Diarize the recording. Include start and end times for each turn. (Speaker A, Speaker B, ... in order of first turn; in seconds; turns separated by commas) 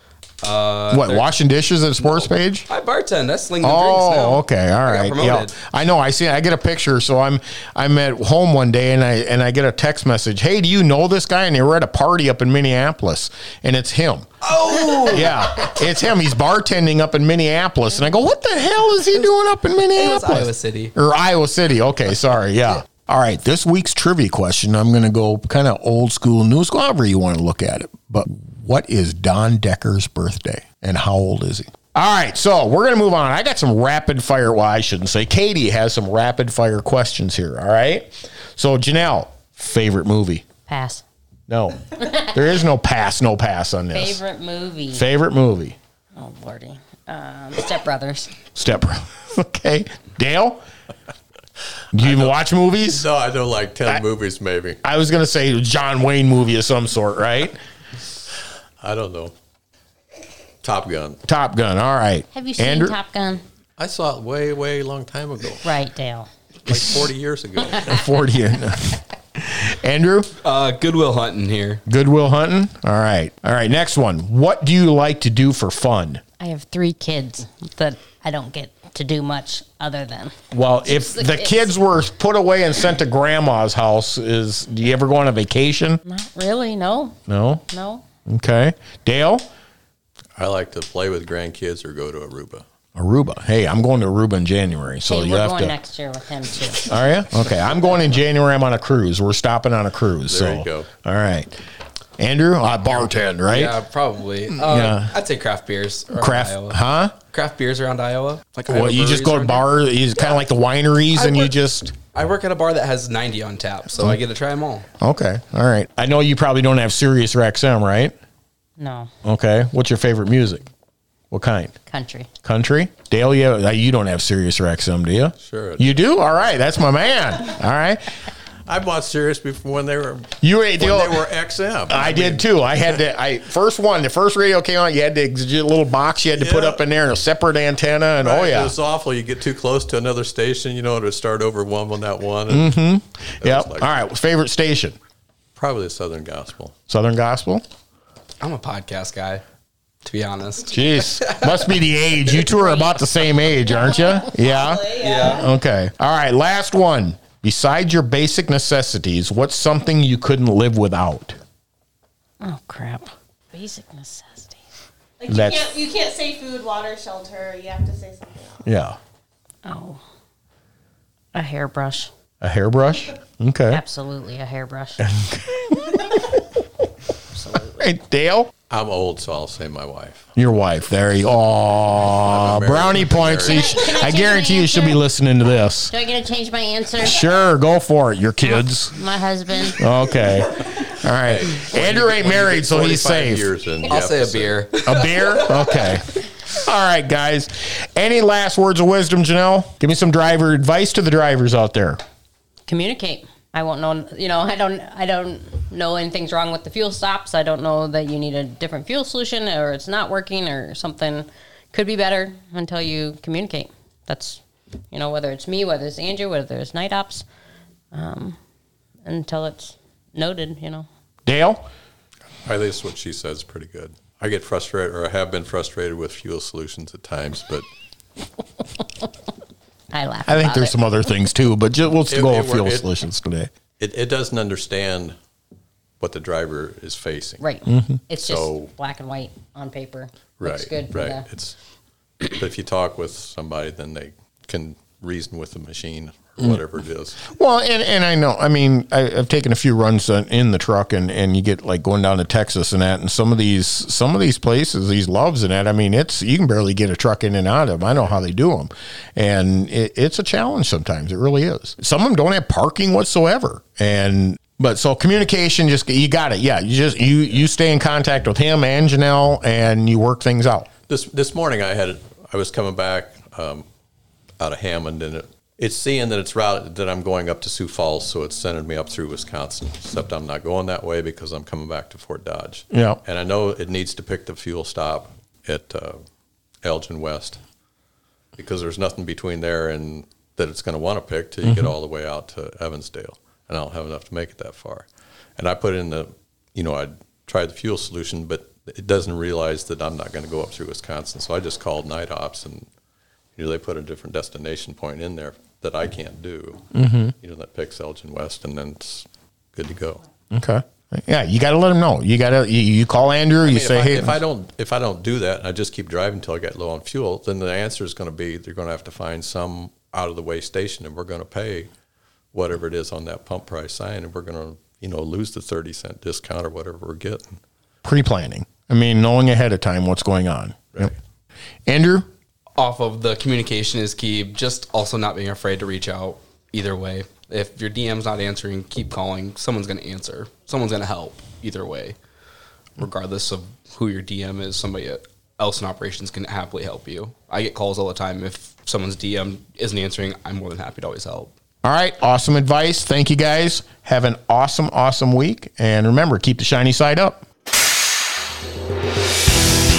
Speaker A: 0.4-1.3, Speaker B: 0.9-2.6, Speaker A: 2.0-5.5, Speaker B: 3.6-14.3, Speaker A: 14.4-15.5, Speaker B: 15.0-40.4, Speaker A: 19.9-20.9, Speaker C: 40.7-41.0, Speaker B: 41.5-44.2, Speaker C: 43.9-45.0, Speaker B: 44.9-45.8, Speaker C: 46.1-48.3, Speaker B: 48.5-50.6, Speaker B: 51.9-53.1, Speaker D: 52.0-52.4, Speaker D: 52.9-54.8, Speaker B: 54.8-57.6, Speaker D: 58.8-59.3, Speaker D: 60.6-61.2, Speaker B: 61.3-63.0, Speaker C: 62.3-63.4, Speaker D: 63.8-65.6, Speaker C: 65.6-66.3, Speaker D: 66.7-68.0, Speaker B: 67.8-70.3, Speaker A: 70.4-71.8, Speaker B: 71.8-76.2, Speaker C: 76.4-80.3, Speaker B: 80.5-86.0, Speaker C: 81.0-81.7, Speaker C: 86.0-88.0, Speaker B: 87.3-87.6, Speaker B: 88.2-89.5, Speaker D: 90.4-92.6, Speaker B: 93.0-95.8, Speaker C: 95.1-96.9, Speaker B: 96.7-101.5, Speaker D: 100.3-100.9, Speaker B: 102.2-103.8, Speaker A: 103.5-109.7, Speaker B: 104.5-105.2, Speaker B: 106.1-107.1, Speaker B: 108.7-111.9, Speaker A: 111.1-114.9, Speaker B: 115.0-118.1, Speaker C: 118.8-119.1, Speaker B: 119.2-120.7, Speaker B: 121.3-121.8, Speaker C: 121.9-122.3, Speaker B: 122.4-128.1, Speaker D: 125.4-126.0, Speaker D: 128.7-132.5, Speaker B: 130.4-131.3, Speaker B: 131.9-138.7, Speaker D: 136.3-136.8, Speaker D: 138.2-142.8, Speaker B: 142.5-145.0, Speaker D: 143.4-144.0, Speaker D: 145.6-146.7, Speaker B: 146.9-147.6, Speaker A: 148.4-149.4, Speaker A: 150.0-151.8, Speaker B: 150.7-161.4, Speaker E: 153.7-155.5, Speaker A: 155.0-155.4, Speaker C: 162.4-164.6, Speaker E: 165.2-168.6, Speaker B: 165.3-165.7, Speaker B: 168.6-169.0, Speaker C: 169.6-170.0, Speaker C: 171.3-172.1, Speaker B: 172.4-173.8, Speaker C: 173.7-175.0, Speaker B: 175.0-176.5, Speaker C: 177.3-177.9, Speaker B: 177.8-178.5, Speaker D: 178.7-180.3, Speaker B: 180.3-185.9, Speaker D: 182.2-183.7, Speaker C: 183.4-185.0, Speaker C: 185.9-187.3, Speaker B: 187.0-188.9, Speaker C: 188.4-189.8, Speaker B: 189.8-193.5, Speaker D: 191.1-194.7, Speaker A: 193.8-195.9, Speaker B: 194.8-202.0, Speaker C: 202.7-217.2, Speaker C: 217.9-218.4, Speaker C: 219.1-220.9, Speaker B: 221.2-221.7, Speaker D: 222.4-227.7, Speaker C: 229.9-230.8, Speaker B: 230.3-233.5, Speaker D: 232.1-232.9, Speaker D: 233.8-235.2, Speaker D: 236.0-237.4, Speaker C: 237.4-241.2, Speaker B: 237.7-238.0, Speaker D: 238.2-238.7, Speaker D: 240.4-241.6, Speaker D: 242.2-247.3, Speaker B: 247.2-270.7, Speaker D: 270.9-273.6, Speaker D: 274.4-286.0, Speaker B: 282.7-283.0, Speaker D: 286.6-287.4, Speaker D: 288.4-294.9, Speaker B: 291.4-291.7, Speaker D: 295.4-302.7, Speaker D: 303.4-310.0, Speaker B: 306.7-307.1, Speaker B: 310.3-314.2, Speaker D: 313.4-321.7, Speaker D: 322.3-327.4, Speaker B: 327.8-330.9, Speaker B: 331.7-332.1, Speaker A: 332.6-341.9, Speaker A: 342.8-351.3, Speaker B: 351.6-357.2